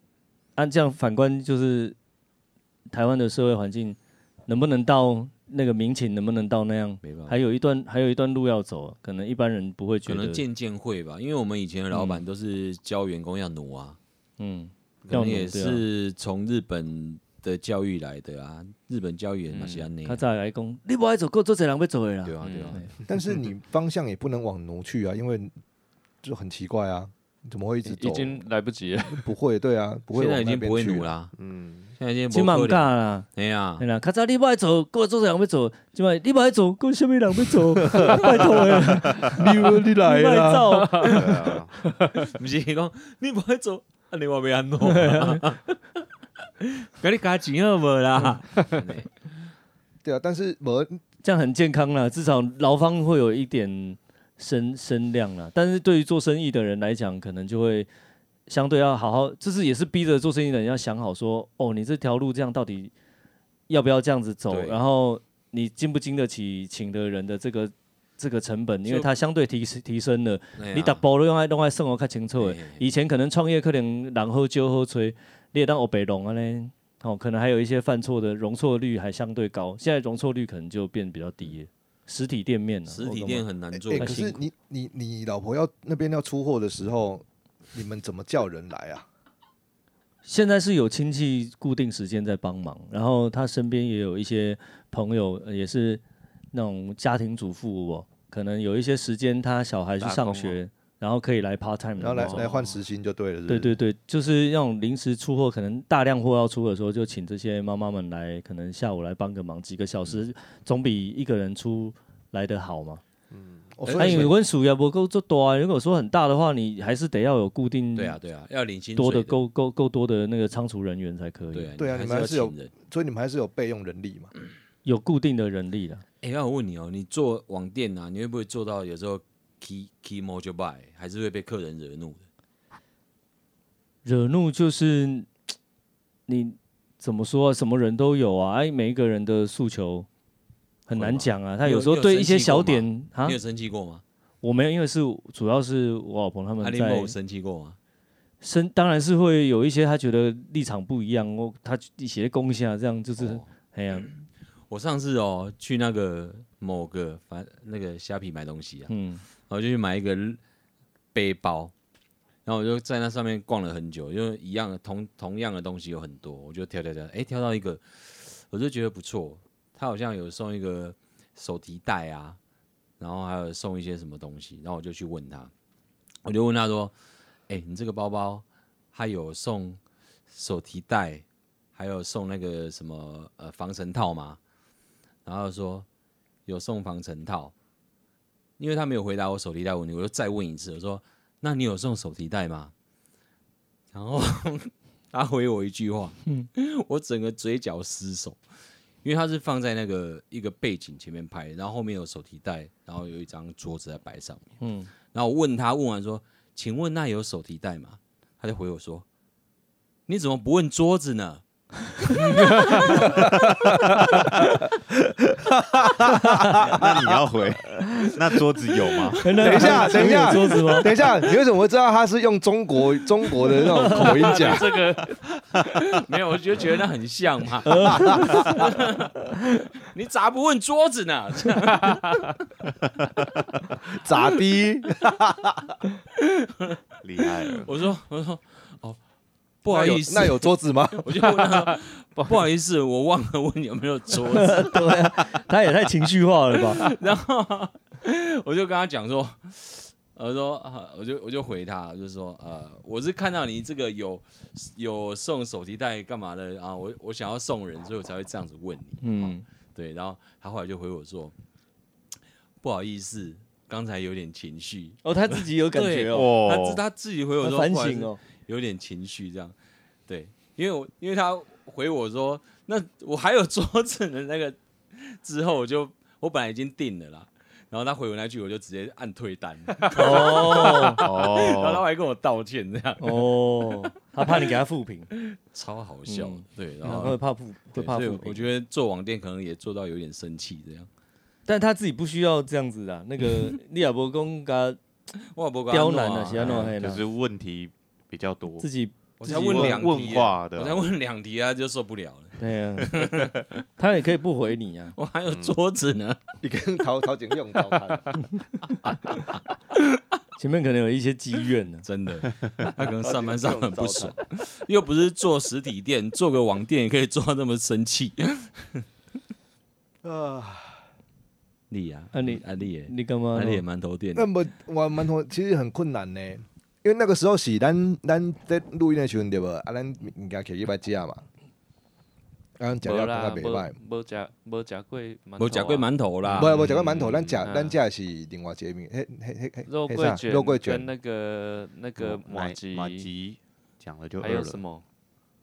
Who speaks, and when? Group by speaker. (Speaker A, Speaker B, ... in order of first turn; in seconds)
Speaker A: 0.6-1.9, 2.9-10.4, 14.4-15.8, 20.1-22.9, 32.3-33.3, 33.8-41.6, 44.8-45.4, 51.2-57.9, 58.5-62.9, 63.7-83.4, 84.0-84.3, 90.2-102.5, 103.5-113.0, 113.9-118.2, 119.0-121.7, 124.8-126.0, 134.0-135.3, 136.3-140.1, 140.9-143.4, 144.4-147.1, 148.4-154.1, 158.9-159.2, 204.6-204.9, 219.2-221.1, 227.7-228.7, 244.3-246.9, 259.0-259.4, 265.0-266.4, 267.4-268.2, 279.9-281.0, 283.0-285.1, 286.1-288.5, 291.4-294.8, 295.7-297.0, 298.6-299.9, 302.4-304.9, 310.4-311.9, 322.1-323.6
Speaker B: 7.0-7.4, 10.1-14.0, 15.1-20.2, 22.2-22.8, 30.1-31.3, 32.0-33.8, 42.3-46.0, 46.6-49.1, 64.5-64.8, 70.6-71.0, 72.4-72.9, 82.9-84.4, 114.0-114.3, 117.9-119.4, 121.5-122.7, 126.2-132.2, 140.9-144.0, 146.6-147.8, 153.2-154.1, 154.7-158.9, 159.5-160.4, 161.1-161.7, 162.4-172.4, 173.0-175.5, 176.2-176.9, 177.5-181.2, 181.7-184.4, 185.2-185.8, 186.4-187.5, 188.6-192.7, 193.9-198.4, 199.0-204.5, 205.1-209.0, 210.1-211.4, 212.0-213.1, 223.8-232.4, 236.2-239.0, 239.6-245.4, 246.5-261.3, 262.6-269.5, 270.1-284.6, 285.2-287.2, 287.7-290.9, 295.2-296.7, 299.2-303.6, 304.9-306.2, 311.8-318.6, 321.7-324.3, 335.4-336.8
Speaker C: 15.0-15.3, 31.3-31.9, 41.0-41.8, 100.0-100.5, 113.3-113.8, 216.7-220.3, 237.0-237.8, 266.0-266.8, 281.0-281.8, 296.5-298.7, 299.2-300.9, 312.4-312.7, 336.4-337.3, 342.0-344.6
Speaker D: 19.5-19.9, 22.4-22.8, 27.8-29.3, 40.7-41.2, 100.0-100.3, 102.1-102.7, 224.3-225.1, 241.1-242.4, 332.8-335.9, 337.4-337.8, 339.6-343.1, 344.2-344.8
Speaker E: 23.1-25.5, 26.2-28.4, 29.1-31.1, 37.8-41.1, 50.0-51.0, 83.9-89.0, 102.0-103.8, 113.8-114.3, 121.8-124.3, 212.7-217.0, 219.4-224.6, 233.9-235.7, 239.7-241.1, 306.4-308.2, 313.0-314.1, 320.0-320.8, 324.1-331.2, 332.6-333.8, 336.4-340.9